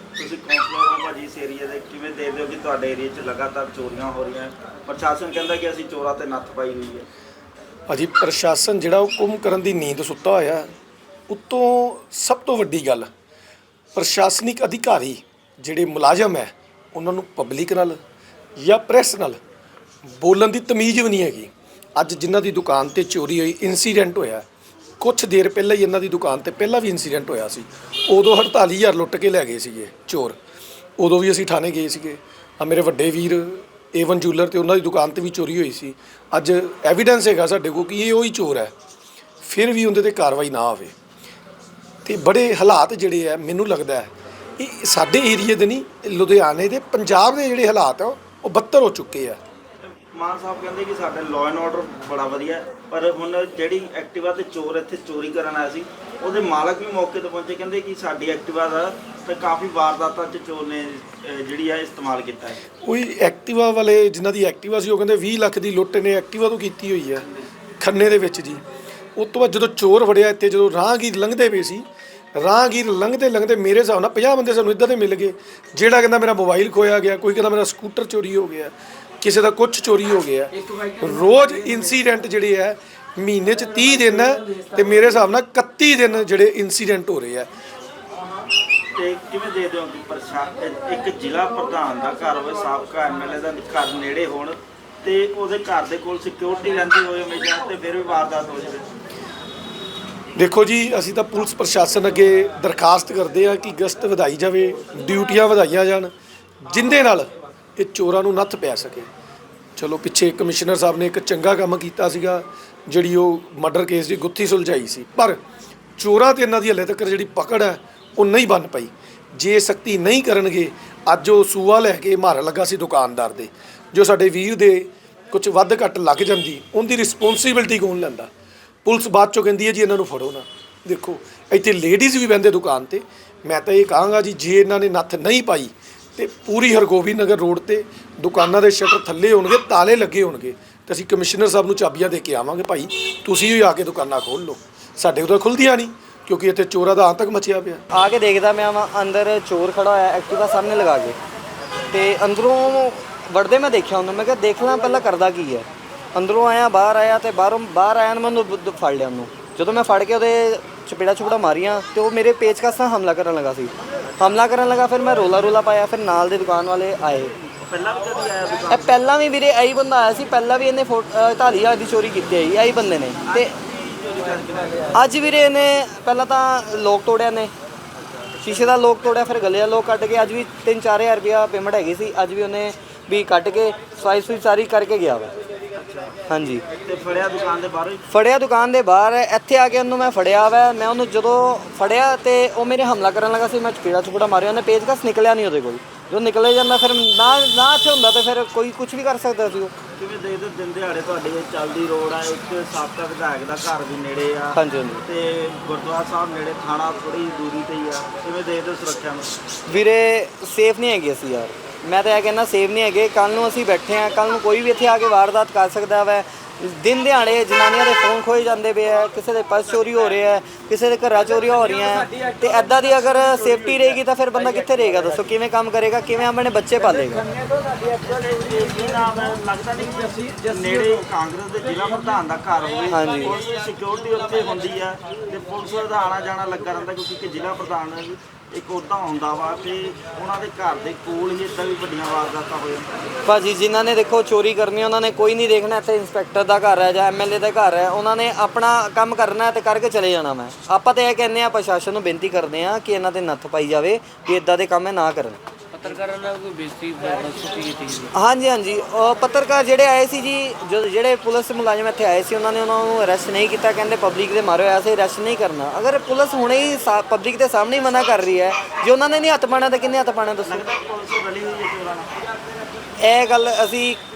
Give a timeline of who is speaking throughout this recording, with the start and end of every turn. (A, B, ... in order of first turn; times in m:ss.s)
0:00.2-0:07.1 A
0:07.9-0:10.7 B
0:11.3-0:13.1 B
0:14.0-0:18.0 B
0:18.6-0:19.4 B
0:20.1-0:24.4 B
0:25.0-0:30.4 B
0:31.0-0:38.7 B
0:39.4-0:40.9 B
0:42.0-0:49.4 B
0:49.8-1:02.6 A
1:02.8-1:07.3 B
1:07.8-1:08.6 B
1:09.2-1:27.5 B
1:28.9-1:38.9 A
1:40.4-1:46.1 B
1:46.6-1:49.1 B
1:49.8-1:55.4 B
1:56.0-2:08.3 B
2:08.8-2:27.8 B
2:27.9-2:31.2 C
2:31.9-2:47.3 C
2:47.5-2:49.0 A
2:48.7-2:53.5 C
2:53.2-2:55.1 A
2:54.9-2:57.5 C
2:58.4-3:05.3 C
3:05.7-3:06.2 A
3:06.3-3:06.6 C
3:06.7-3:08.1 A
3:08.1-3:19.7 C
3:20.0-3:29.4 A
3:24.5-3:25.0 C
3:29.7-3:47.3 C
3:47.7-4:03.2 A
3:52.9-3:53.4 C
4:03.2-4:15.4 C
4:15.7-4:18.1 D
4:18.1-4:30.6 C
4:30.4-4:32.3 A
4:33.0-4:34.0 C